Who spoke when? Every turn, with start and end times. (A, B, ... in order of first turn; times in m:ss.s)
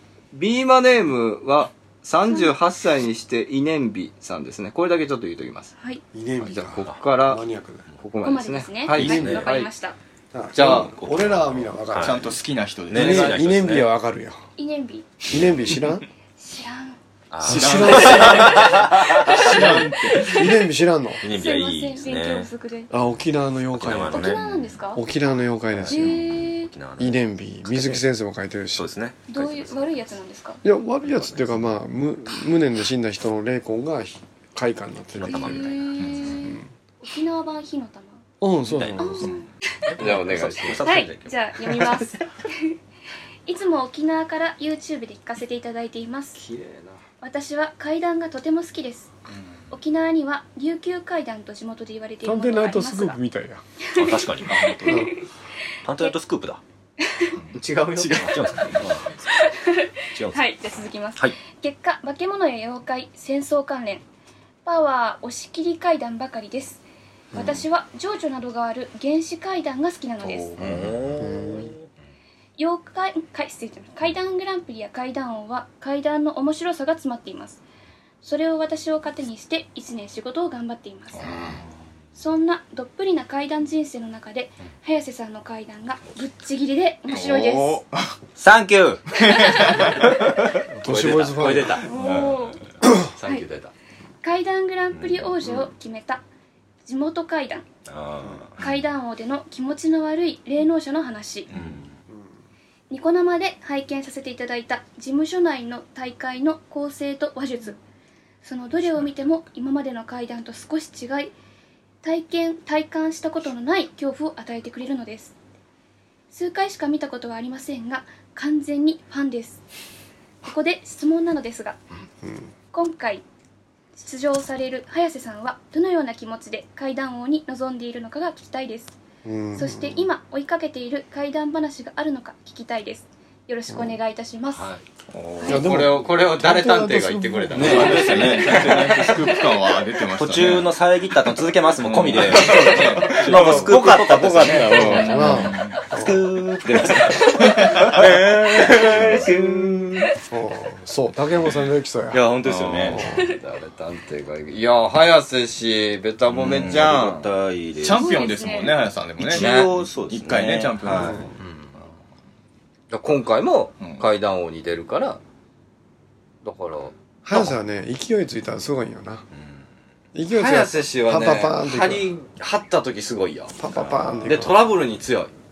0:00.3-0:05.7 A
0:02.2-0:02.5 B
0:06.1-0:07.9 C
0:06.4-0:07.4 A
0:08.0-0:09.6 A
0:08.2-0:10.0 B
0:08.9-0:09.5 D
0:08.9-0:09.6 C
0:10.3-0:12.3 C
0:10.5-0:10.9 A
0:10.5-0:13.9 D
0:12.0-0:13.3 E
0:12.9-0:14.4 C
0:14.6-0:15.1 B
0:15.3-0:16.0 C
0:16.4-0:17.0 B
0:17.3-0:20.1 D
0:17.4-0:21.2 C
0:17.4-0:20.4 E
0:20.1-0:20.6 B
0:21.2-0:22.5 D
0:21.3-0:22.9 B
0:22.9-0:24.4 C
0:23.7-0:24.8 D
0:23.9-0:25.0 B
0:24.9-0:26.2 C
0:25.7-0:28.0 D
0:25.9-0:26.7 B
0:27.0-0:28.9 C
0:28.7-0:30.1 D
0:29.3-0:30.6 B
0:30.6-0:35.8 C
0:31.0-0:31.7 D
0:35.1-0:36.3 D
0:35.2-0:38.2 B
0:36.4-0:36.7 C
0:38.4-0:39.3 C
0:38.6-0:42.0 D
0:39.0-0:39.5 B
0:40.0-0:40.8 A
0:40.8-0:42.7 B
0:43.4-0:46.4 B
0:46.4-0:47.0 A
0:47.2-0:49.1 B
0:49.7-0:53.2 B
0:52.2-0:53.6 C
0:53.9-0:55.2 B
0:53.9-0:55.1 D
0:54.5-0:55.1 E
0:54.8-0:55.1 C
0:55.8-0:56.6 D
0:57.0-0:57.3 B
0:57.3-0:58.8 E
0:57.5-0:58.2 A
0:58.1-0:59.4 D
0:59.3-1:04.0 B
1:00.1-1:00.4 D
1:04.6-1:06.8 B
1:07.3-1:07.6 C
1:07.3-1:10.5 B
1:10.2-1:10.5 E
1:10.5-1:11.9 D
1:10.6-1:11.0 A
1:11.2-1:11.7 C
1:12.6-1:17.6 B
1:18.2-1:21.3 B
1:21.2-1:21.6 A
1:22.1-1:27.8 B
1:27.1-1:28.2 E
1:28.4-1:30.1 D
1:29.1-1:30.4 E
1:29.4-1:29.8 B
1:30.7-1:31.9 A
1:30.8-1:31.8 C
1:31.8-1:32.6 B
1:31.9-1:32.5 D
1:32.8-1:33.7 A
1:34.2-1:36.2 B
1:34.9-1:35.6 D
1:36.8-1:37.6 B
1:37.9-1:38.6 D
1:38.6-1:41.5 B
1:41.5-1:41.9 D
1:42.1-1:42.3 C
1:42.9-1:47.8 B
1:48.4-1:51.3 B
1:52.0-1:55.3 B
1:56.3-1:59.6 B
2:00.4-2:01.8 B
2:02.2-2:02.5 C
2:02.7-2:03.2 B
2:04.0-2:09.0 B
2:09.2-2:10.1 C
2:09.6-2:14.7 B
2:13.7-2:14.0 C
2:14.5-2:14.8 A
2:15.1-2:15.8 E
2:15.4-2:15.7 B
2:15.4-2:18.3 C
2:15.5-2:18.9 A
2:17.5-2:19.4 D
2:17.6-2:20.7 E
2:20.1-2:29.6 D
2:21.8-2:25.8 E
2:22.4-2:25.3 A
2:24.9-2:26.3 C
2:26.8-2:29.3 E
2:27.9-2:29.6 A
2:30.3-2:32.3 C
2:32.1-2:33.0 D
2:32.3-2:32.9 E
2:32.8-2:33.3 C
2:32.9-2:37.2 A
2:36.3-2:38.2 D
2:37.8-2:39.5 E
2:37.9-2:38.9 B
2:39.2-2:41.3 D
2:39.3-2:39.7 A
2:40.1-2:41.3 E
2:40.9-2:41.3 C
2:41.4-2:41.7 A
2:42.9-2:45.2 A
2:43.8-2:44.0 E
2:46.4-2:46.9 A
2:47.2-2:49.3 C
2:50.1-2:52.1 C
2:50.3-2:53.6 A
2:53.6-2:54.6 C
2:53.7-2:54.5 D
2:54.2-2:55.3 A